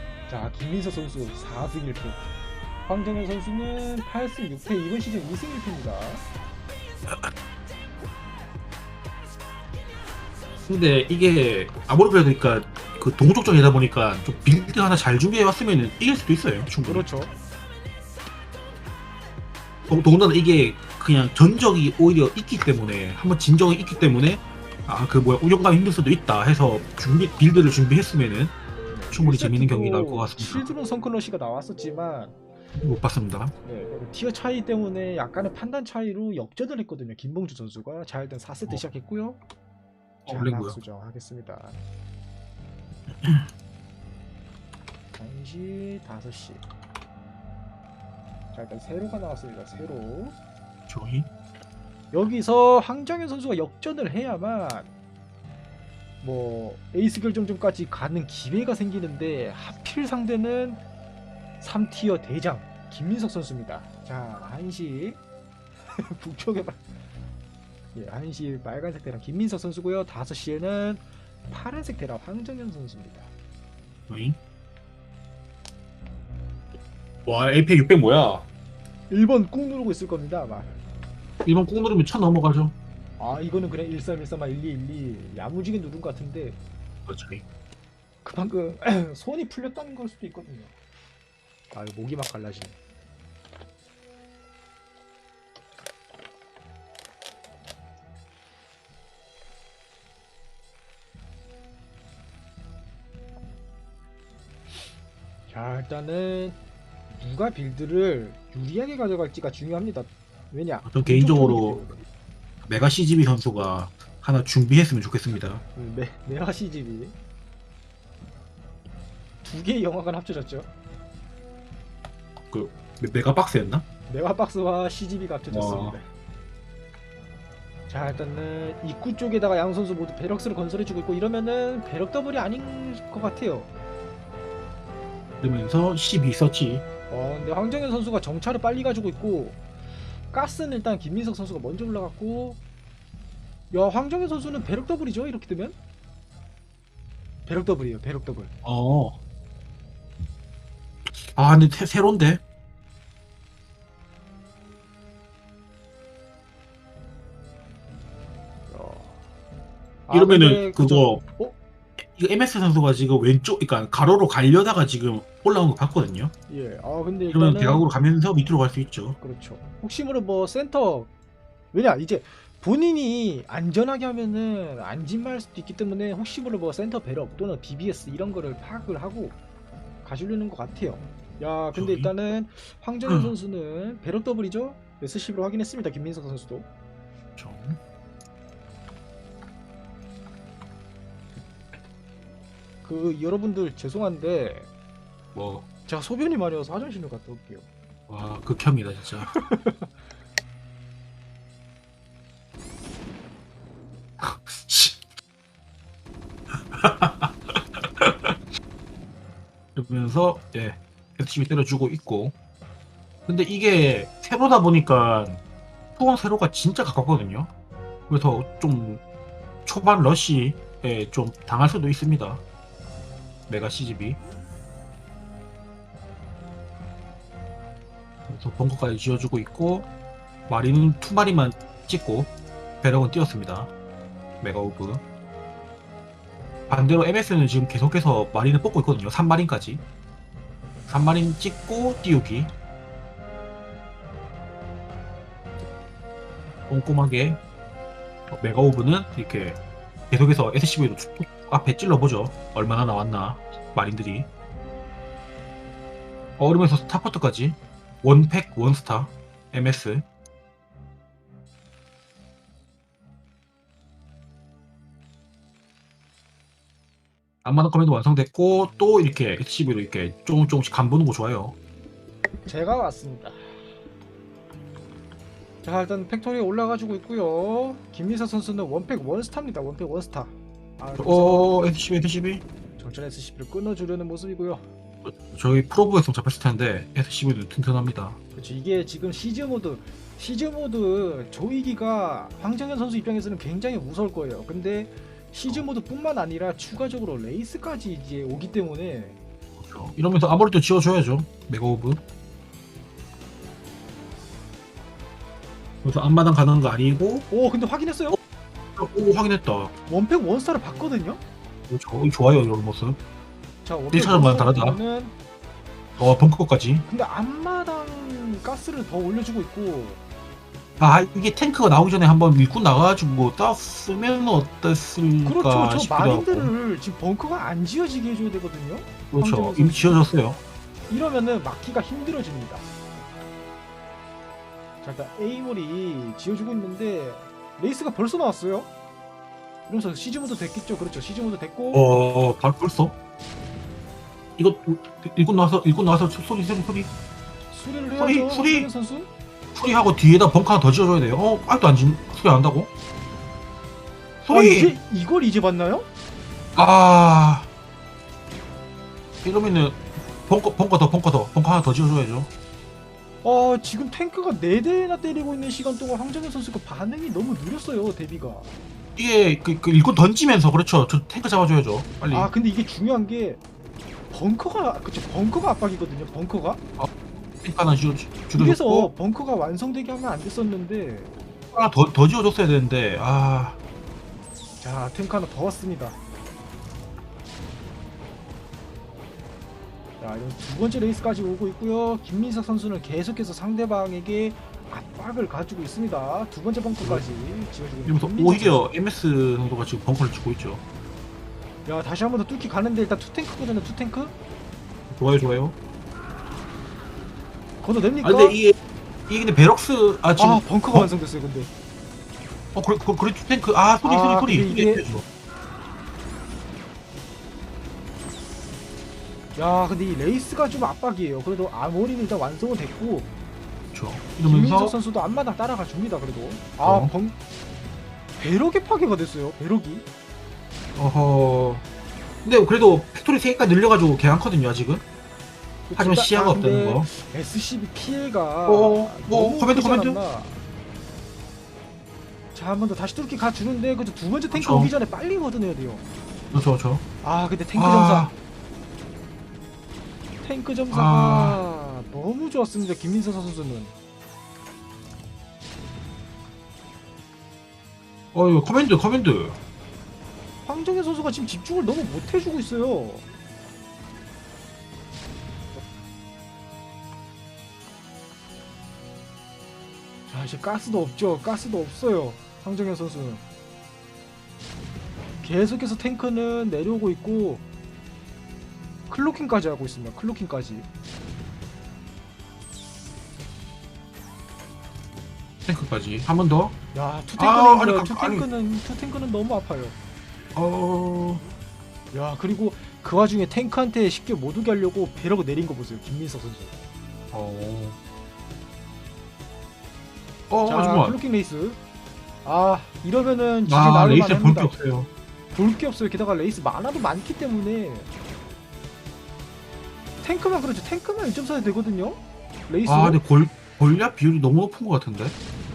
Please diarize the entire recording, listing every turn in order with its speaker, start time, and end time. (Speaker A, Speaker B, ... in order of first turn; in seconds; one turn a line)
Speaker A: 0.3-2.2
Speaker A: 2.9-6.2
Speaker B: 10.7-17.1
Speaker A: 16.8-17.3
Speaker B: 19.9-28.6
Speaker A: 28.9-32.4
Speaker B: 29.1-30.7
Speaker B: 32.8-33.5
Speaker A: 33.6-39.4
Speaker B: 40.2-40.8
Speaker A: 40.3-41.8
Speaker B: 43.2-43.5
Speaker A: 45.2-46.6
Speaker A: 48.5-50.3
Speaker B: 50.9-51.3
Speaker A: 52.1-54.9
Speaker A: 56.2-60.8
Speaker A: 61.6-65.2
Speaker A: 65.9-66.8
Speaker A: 67.9-73.3
Speaker B: 74.1-74.4
Speaker B: 77.2-78.5
Speaker A: 79.1-80.8
Speaker B: 81.4-82.7
Speaker A: 83.2-86.6
Speaker B: 87.1-87.4
Speaker A: 88.2-90.7
Speaker A: 91.7-92.7
Speaker A: 105.5-106.6
Speaker A: 107.2-112.0
Speaker B: 110.8-111.8
Speaker B: 112.6-115.6
Speaker A: 115.8-117.1
Speaker A: 119.4-120.7
Speaker B: 122.5-123.8
Speaker A: 124.1-126.1
Speaker B: 125.5-126.0
Speaker A: 127.9-133.7
Speaker B: 135.4-136.8
Speaker A: 137.1-139.6
Speaker A: 140.3-142.6
Speaker A: 143.7-145.8
Speaker A: 147.4-148.5
Speaker B: 148.6-149.2
Speaker B: 151.1-152.4
Speaker A: 158.7-159.2
Speaker A: 160.1-161.6
Speaker B: 160.1-161.2
Speaker B: 162.0-166.3
Speaker A: 166.5-167.8
Speaker B: 167.3-169.2
Speaker A: 169.2-171.1
Speaker A: 171.7-179.4
Speaker A: 180.0-186.7
Speaker B: 181.7-182.1
Speaker B: 183.1-183.3
Speaker B: 187.4-187.8
Speaker A: 192.8-194.7
Speaker B: 195.3-195.7
Speaker A: 195.8-197.7
Speaker B: 198.1-199.3
Speaker A: 199.3-199.9
Speaker B: 204.2-205.0
Speaker B: 206.7-208.3
Speaker B: 209.7-212.3
Speaker B: 213.2-215.4
Speaker B: 215.9-217.5
Speaker B: 218.1-219.0
Speaker B: 219.6-222.4
Speaker B: 223.5-224.2
Speaker B: 228.3-229.9
Speaker B: 230.5-232.3
Speaker B: 232.8-233.7
Speaker B: 234.4-235.0
Speaker B: 236.7-239.8
Speaker B: 240.9-242.5
Speaker B: 246.7-247.4
Speaker B: 248.3-249.6
Speaker B: 250.1-254.3
Speaker B: 256.4-260.0
Speaker B: 267.4-271.6
Speaker A: 272.4-273.6
Speaker A: 275.6-281.5
Speaker B: 281.0-282.4
Speaker A: 282.8-284.6
Speaker B: 285.0-288.2
Speaker A: 288.3-299.2
Speaker B: 299.6-302.0
Speaker B: 305.8-307.3
Speaker A: 307.3-308.2
Speaker B: 308.8-309.7
Speaker A: 309.9-311.2
Speaker B: 311.7-313.0
Speaker A: 313.6-315.1
Speaker B: 313.9-314.8
Speaker B: 316.0-316.8
Speaker A: 316.9-320.0
Speaker B: 320.8-326.5
Speaker A: 325.2-330.0
Speaker B: 329.1-330.4
Speaker A: 330.9-332.6
Speaker A: 334.8-338.7
Speaker A: 339.7-341.8
Speaker B: 341.7-342.9
Speaker B: 344.4-346.9
Speaker A: 347.5-349.1
Speaker B: 348.0-348.7
Speaker B: 349.5-352.7
Speaker B: 354.2-354.7
Speaker A: 354.3-355.9
Speaker B: 356.5-357.5
Speaker B: 359.2-362.3
Speaker A: 363.2-368.5
Speaker B: 368.9-372.3
Speaker A: 372.1-373.4
Speaker A: 374.1-376.6
Speaker B: 377.4-378.9
Speaker A: 378.3-381.1
Speaker B: 381.5-383.6
Speaker A: 384.6-386.0
Speaker A: 390.0-398.6
Speaker B: 396.8-397.1
Speaker B: 397.8-400.6
Speaker A: 401.6-404.1
Speaker B: 404.9-405.5
Speaker A: 407.6-408.4
Speaker B: 408.0-408.6
Speaker B: 409.1-410.9
Speaker A: 410.2-411.5
Speaker B: 412.5-415.0
Speaker A: 413.8-414.9
Speaker A: 419.3-423.1
Speaker B: 423.7-424.8
Speaker A: 424.2-427.1
Speaker B: 426.6-426.9
Speaker A: 428.2-429.9
Speaker B: 430.8-431.6
Speaker B: 432.2-434.8
Speaker A: 435.7-440.4
Speaker B: 435.8-436.9
Speaker B: 438.5-440.0
Speaker A: 442.3-445.8
Speaker B: 444.3-444.7
Speaker B: 446.3-446.8
Speaker A: 447.0-448.1
Speaker B: 447.5-448.1
Speaker A: 450.2-453.7
Speaker B: 450.7-451.4
Speaker B: 458.1-459.4
Speaker A: 460.4-463.0
Speaker A: 470.1-473.2
Speaker A: 475.2-477.4
Speaker A: 478.9-480.7
Speaker B: 485.4-486.5
Speaker A: 486.7-489.8
Speaker B: 487.2-488.3
Speaker B: 490.3-491.2
Speaker A: 491.9-496.6
Speaker B: 497.1-497.8
Speaker B: 500.3-501.0
Speaker A: 500.4-501.6
Speaker A: 502.2-504.6
Speaker B: 503.4-504.9
Speaker A: 505.3-507.9
Speaker A: 510.0-513.0
Speaker B: 512.7-515.1